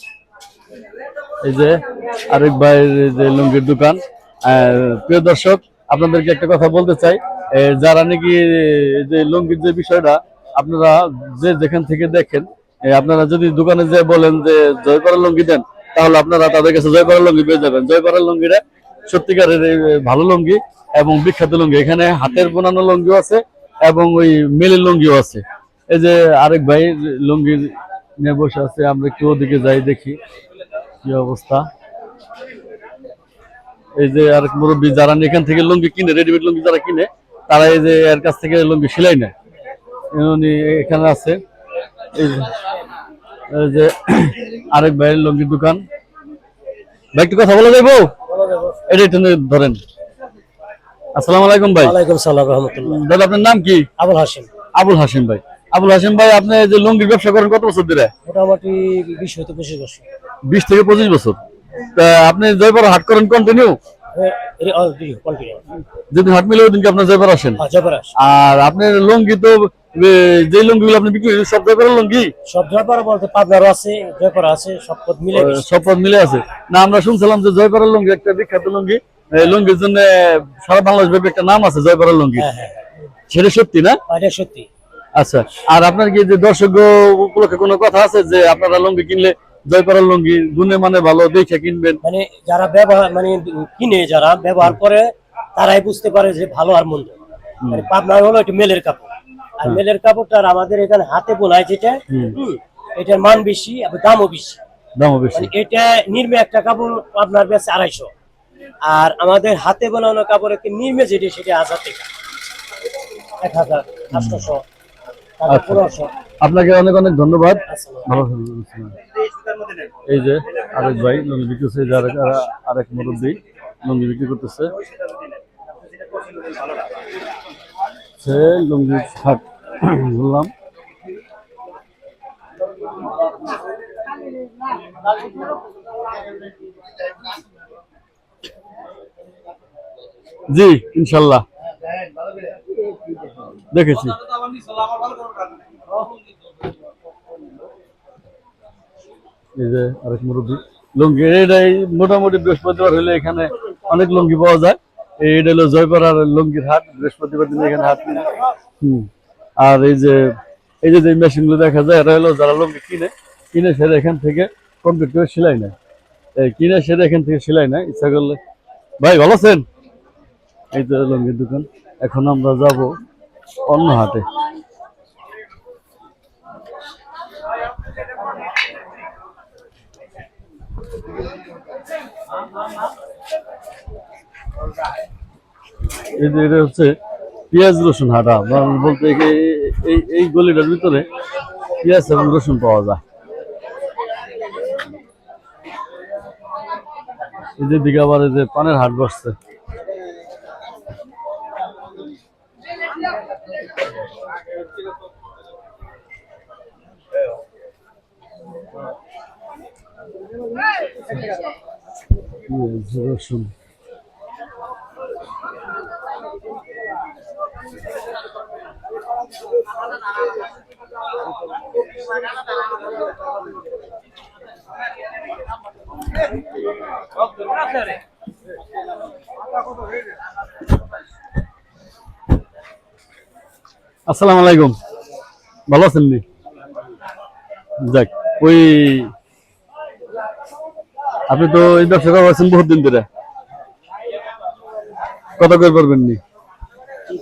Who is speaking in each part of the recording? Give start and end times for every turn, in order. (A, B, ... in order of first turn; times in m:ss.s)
0:01.4-0:30.2 A
0:31.0-0:31.6 A
0:34.0-0:39.3 A
0:40.1-0:41.4 A
0:42.2-0:42.5 A
0:43.5-0:45.8 A
0:47.1-0:48.1 A
0:48.3-0:48.8 B
0:48.9-0:49.8 A
0:51.2-0:52.0 A
0:51.8-0:53.0 B
0:52.8-0:53.9 A
0:54.0-0:54.5 B
0:54.8-0:58.1 A
0:58.2-1:00.0 B
1:00.5-1:01.4 A
1:02.0-1:03.8 A
1:04.1-1:05.6 B
1:06.1-1:07.6 A
1:07.6-1:08.1 B
1:08.2-1:12.3 A
1:12.5-1:15.7 B
1:15.3-1:22.5 A
1:22.4-1:22.8 B
1:23.3-1:24.0 A
1:24.1-1:24.7 B
1:25.2-1:32.0 A
1:32.0-1:35.0 B
1:35.6-1:37.2 B
1:37.7-1:44.6 B
1:45.0-1:45.5 A
1:45.4-1:48.1 B
1:48.9-1:52.1 B
1:53.4-1:54.6 B
1:54.1-1:54.5 A
1:55.4-1:56.1 B
1:55.5-1:55.9 A
1:56.4-1:59.0 A
1:57.7-1:58.1 B
2:00.1-2:04.7 A
2:08.2-2:10.5 A
2:20.5-2:21.4 A
2:23.7-2:24.2 A
2:29.6-2:39.1 A
2:39.6-2:40.2 A
2:40.8-2:45.8 A
2:46.4-2:48.4 A
2:49.0-2:49.6 A
2:50.7-2:52.9 A
2:53.7-2:54.3 A
3:06.2-3:07.0 A
3:07.5-3:11.1 A
3:11.8-3:13.0 A
3:17.6-3:19.4 A
3:32.5-3:33.5 A
3:54.1-3:54.8 A
3:55.7-3:56.2 A
3:57.8-3:59.1 A
4:01.3-4:03.1 A
4:05.4-4:06.2 A